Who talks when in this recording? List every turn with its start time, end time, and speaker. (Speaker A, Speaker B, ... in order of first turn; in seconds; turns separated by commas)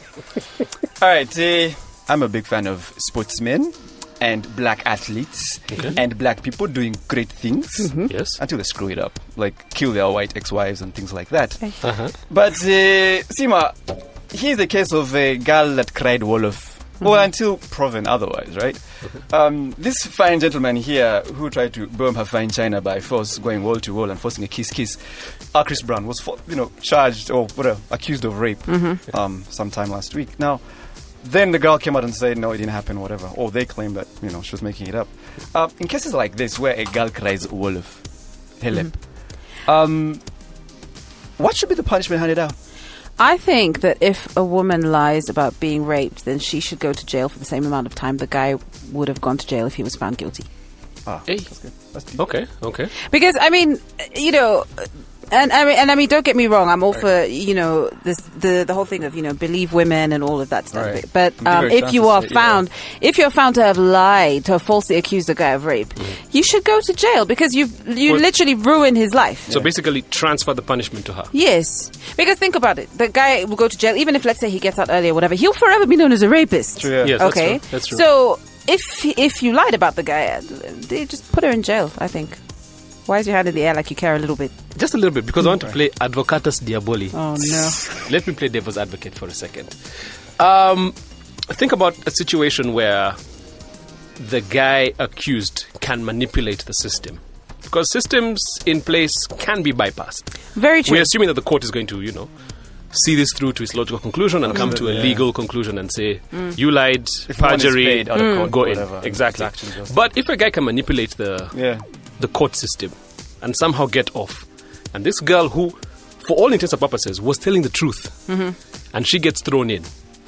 Speaker A: 1.0-11.6, Speaker B: 8.1-8.4, Speaker B: 11.8-12.1, Speaker A: 12.3-30.6, Speaker C: 28.7-29.0, Speaker A: 31.2-38.0, Speaker A: 38.6-39.0, Speaker A: 39.7-40.2, Speaker A: 41.4-42.6, Speaker C: 43.2-50.5, Speaker A: 51.1-52.2, Speaker B: 52.2-52.9, Speaker C: 53.0-69.5, Speaker A: 60.7-62.6, Speaker B: 69.5-71.3, Speaker C: 71.3-82.4, Speaker A: 76.8-77.3, Speaker B: 77.0-78.0, Speaker C: 83.1-84.5, Speaker B: 84.8-87.2, Speaker C: 87.1-87.8, Speaker B: 87.9-89.7, Speaker B: 90.4-91.0, Speaker B: 91.5-93.2, Speaker B: 94.2-100.3, Speaker C: 100.5-101.1, Speaker B: 100.9-102.3, Speaker B: 102.9-111.6, Speaker A: 104.5-105.2, Speaker A: 107.3-110.0, Speaker C: 108.1-108.5, Speaker A: 111.5-111.8, Speaker B: 112.2-118.2, Speaker C: 118.3-118.5, Speaker B: 118.9-119.9